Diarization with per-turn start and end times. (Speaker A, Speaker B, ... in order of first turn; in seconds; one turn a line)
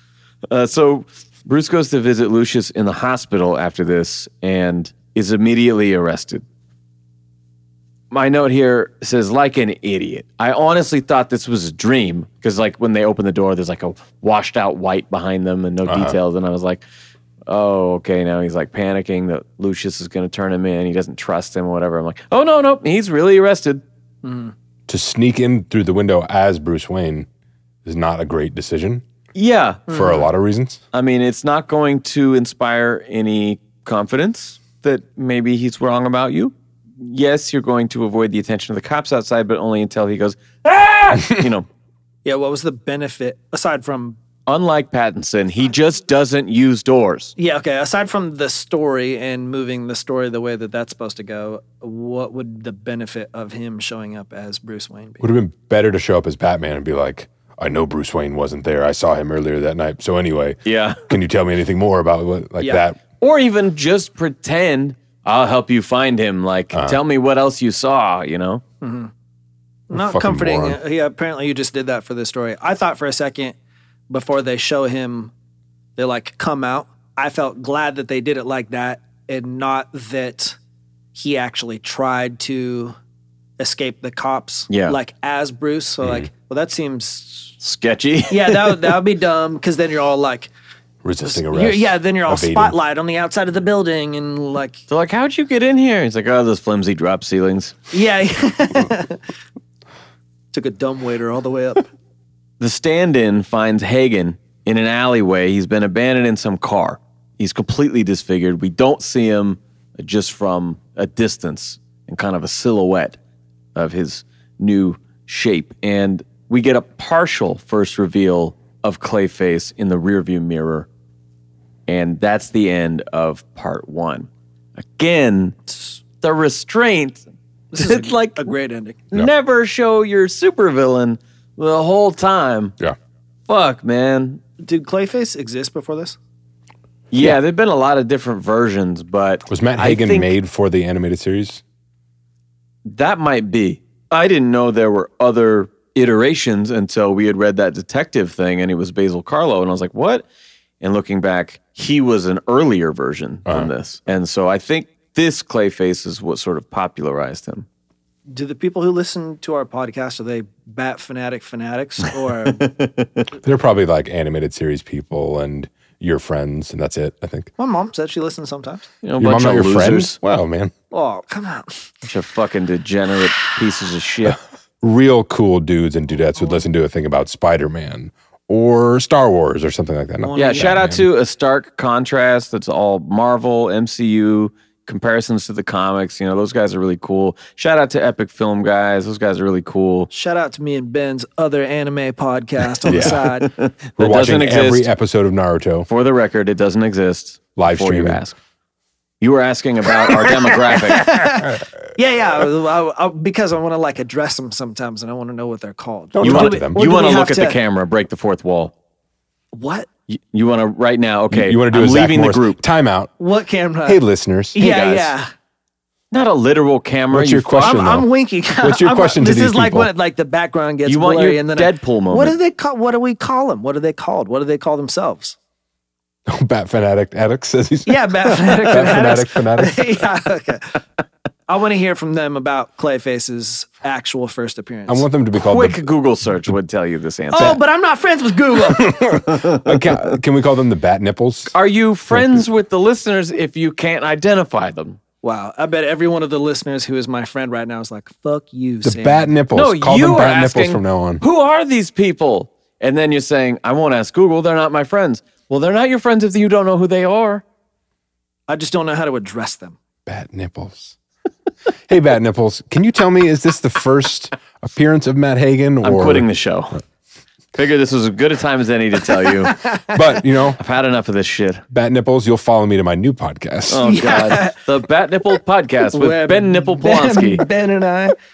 Speaker A: 0.5-6.4
Speaker A: 8.1-16.8
Speaker B: 15.8-16.2
Speaker A: 17.5-23.8
Speaker C: 24.2-24.5
Speaker B: 24.9-27.3
Speaker B: 27.8-29.0
Speaker A: 29.3-30.0
Speaker C: 29.9-30.2
Speaker B: 29.9-30.8
Speaker A: 30.9-41.7
Speaker C: 42.2-44.2
Speaker A: 44.5-47.3
Speaker C: 47.4-55.3
Speaker B: 55.2-63.0
Speaker A: 60.6-61.0
Speaker C: 62.6-62.8
Speaker A: 63.2-68.6
Speaker B: 66.7-67.0
Speaker C: 68.8-69.1
Speaker C: 69.9-73.5
Speaker B: 69.9-70.8
Speaker C: 74.1-75.3
Speaker C: 76.0-80.6
Speaker C: 81.1-83.0
Speaker C: 83.6-87.5
Speaker A: 84.7-85.0
Speaker B: 86.0-86.3
Speaker A: 87.6-89.0
Speaker C: 88.3-90.5
Speaker B: 91.0-92.7
Speaker C: 91.2-94.8
Speaker A: 94.9-97.8
Speaker C: 97.9-99.2
Speaker C: 100.5-101.8
Speaker A: 102.6-113.2
Speaker A: 113.7-120.9
Speaker A: 121.9-125.6
Speaker A: 126.2-127.2
Speaker C: 127.7-129.0
Speaker A: 127.8-128.5
Speaker A: 129.1-132.7
Speaker A: 133.5-134.4
Speaker C: 134.6-136.2
Speaker A: 137.1-140.3
Speaker B: 139.5-141.6
Speaker A: 142.8-150.2
Speaker A: 150.8-157.7
Speaker C: 158.3-162.7
Speaker A: 162.5-163.2
Speaker B: 163.4-167.5
Speaker C: 167.6-168.8
Speaker A: 169.0-170.2
Speaker B: 169.2-170.7
Speaker C: 170.9-171.8
Speaker A: 172.1-174.4
Speaker B: 174.8-181.1
Speaker C: 180.2-180.8
Speaker A: 180.3-190.1
Speaker C: 190.1-193.5
Speaker B: 192.9-193.2
Speaker A: 192.9-194.9
Speaker B: 194.0-195.9
Speaker A: 195.9-198.3
Speaker B: 197.6-198.2
Speaker A: 199.2-201.2
Speaker C: 200.8-207.6
Speaker B: 206.1-206.8
Speaker A: 206.2-208.7
Speaker C: 209.5-209.9
Speaker A: 210.1-212.6
Speaker B: 211.3-213.1
Speaker C: 213.2-214.0
Speaker B: 213.8-214.6
Speaker C: 214.5-215.3
Speaker A: 214.6-215.1
Speaker A: 216.1-217.8
Speaker B: 217.1-218.1
Speaker C: 217.6-225.3
Speaker B: 218.6-219.9
Speaker A: 220.8-222.3
Speaker B: 226.3-229.9
Speaker C: 227.8-230.8
Speaker C: 231.5-235.1
Speaker B: 234.9-235.8
Speaker A: 235.3-237.6
Speaker C: 237.3-239.0
Speaker B: 238.8-241.5
Speaker A: 239.2-239.9
Speaker A: 241.5-245.0
Speaker B: 242.1-242.5
Speaker C: 245.2-249.3
Speaker B: 248.8-251.2
Speaker A: 249.5-257.4
Speaker C: 258.5-259.8
Speaker B: 260.1-260.9
Speaker B: 261.9-266.3
Speaker A: 265.8-266.8
Speaker A: 267.5-269.6
Speaker C: 269.5-269.9
Speaker B: 269.9-270.6
Speaker A: 270.6-271.6
Speaker B: 271.7-273.9
Speaker A: 273.7-277.4
Speaker C: 273.8-274.6
Speaker C: 275.9-278.1